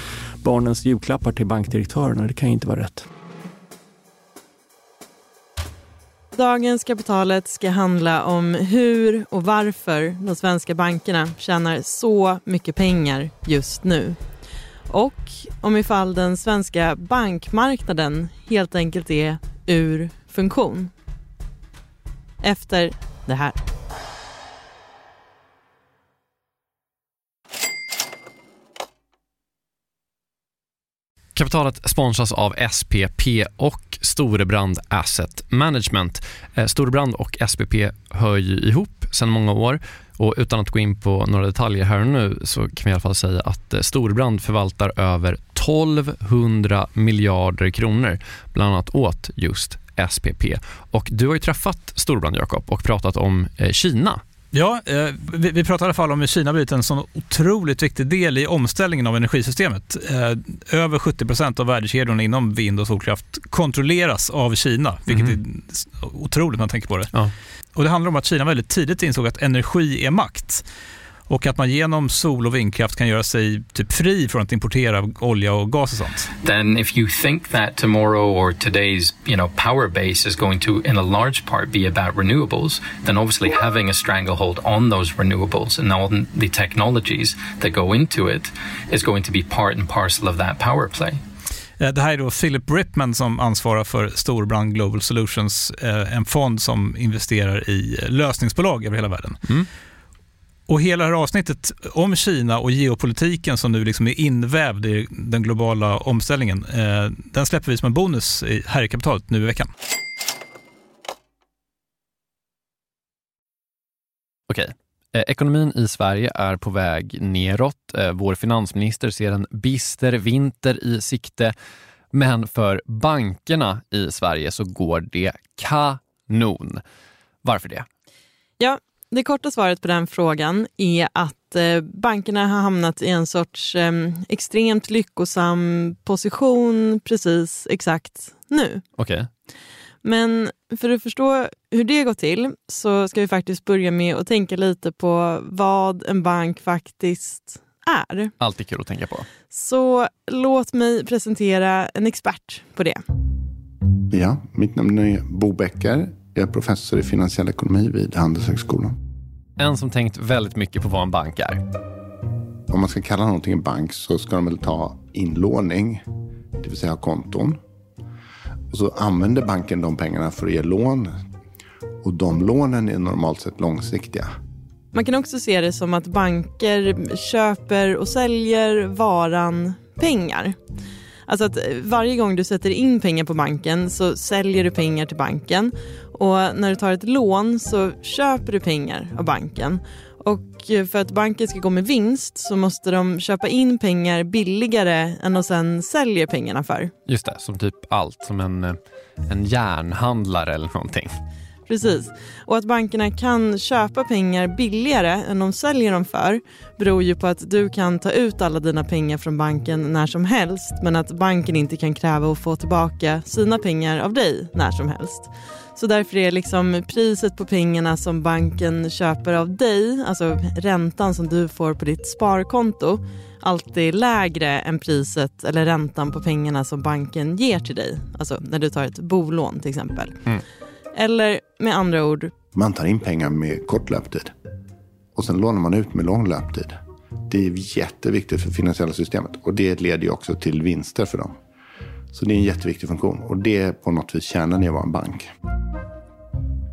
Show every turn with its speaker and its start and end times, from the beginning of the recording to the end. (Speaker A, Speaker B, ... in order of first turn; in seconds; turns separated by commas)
Speaker A: 0.4-3.1, Speaker B: 6.3-14.2, Speaker B: 14.9-20.9, Speaker B: 22.4-23.6, Speaker C: 31.3-54.2, Speaker D: 54.5-67.1, Speaker C: 65.1-65.4, Speaker D: 67.7-70.6, Speaker D: 71.3-76.3, Speaker E: 76.4-91.2, Speaker D: 91.8-99.4, Speaker D: 100.7-109.7, Speaker C: 114.5-121.5, Speaker C: 122.1-126.8, Speaker C: 127.4-127.8, Speaker B: 128.6-138.8, Speaker C: 139.0-139.3, Speaker B: 140.0-148.3, Speaker C: 148.4-149.3, Speaker B: 149.5-153.0, Speaker F: 154.1-158.9, Speaker C: 159.6-161.6, Speaker F: 162.7-166.0, Speaker F: 166.6-167.6, Speaker F: 168.7-171.1, Speaker F: 172.0-174.3, Speaker B: 174.9-180.6, Speaker B: 181.3-196.9, Speaker C: 197.1-201.1, Speaker B: 201.7-230.3, Speaker B: 230.9-232.3, Speaker F: 232.5-234.3, Speaker F: 235.1-236.7, Speaker F: 237.3-241.4, Speaker F: 242.1-245.3